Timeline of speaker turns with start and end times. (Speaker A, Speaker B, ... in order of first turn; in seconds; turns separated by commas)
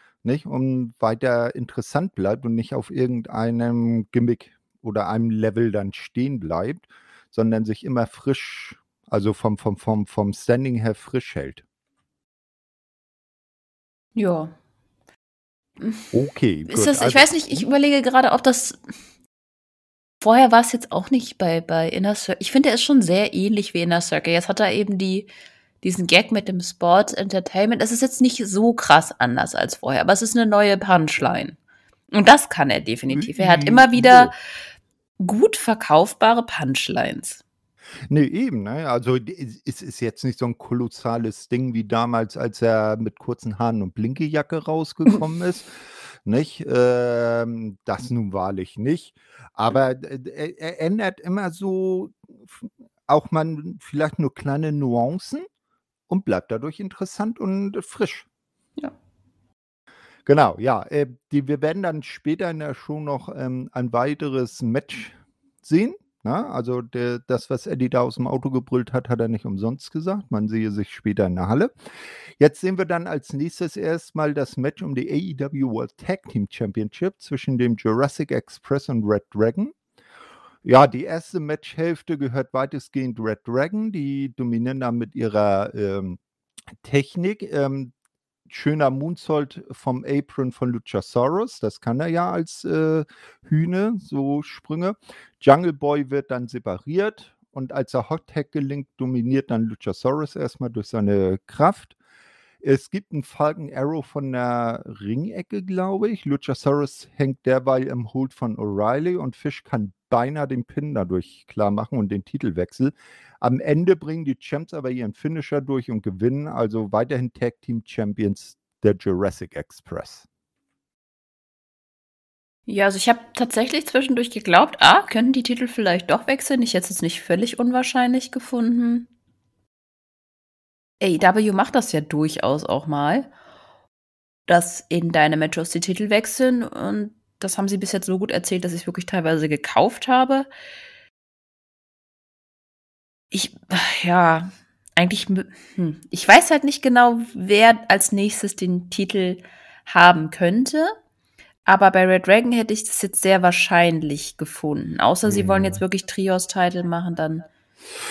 Speaker A: 0.2-11.6, Speaker B: 14.2-14.5, Speaker A: 16.1-17.7, Speaker B: 16.6-18.8, Speaker B: 20.2-25.3, Speaker B: 25.8-31.6, Speaker B: 32.1-34.3, Speaker A: 33.1-34.3, Speaker B: 35.2-37.4, Speaker A: 38.1-55.4, Speaker A: 56.1-58.2, Speaker A: 60.2-71.7, Speaker A: 72.4-79.7, Speaker A: 80.6-86.2, Speaker A: 86.8-87.9, Speaker A: 88.5-101.9, Speaker A: 102.6-120.3, Speaker B: 122.7-129.1, Speaker B: 131.0-133.3, Speaker B: 134.5-140.5, Speaker B: 143.3-150.9, Speaker B: 151.7-157.4, Speaker A: 155.2-155.8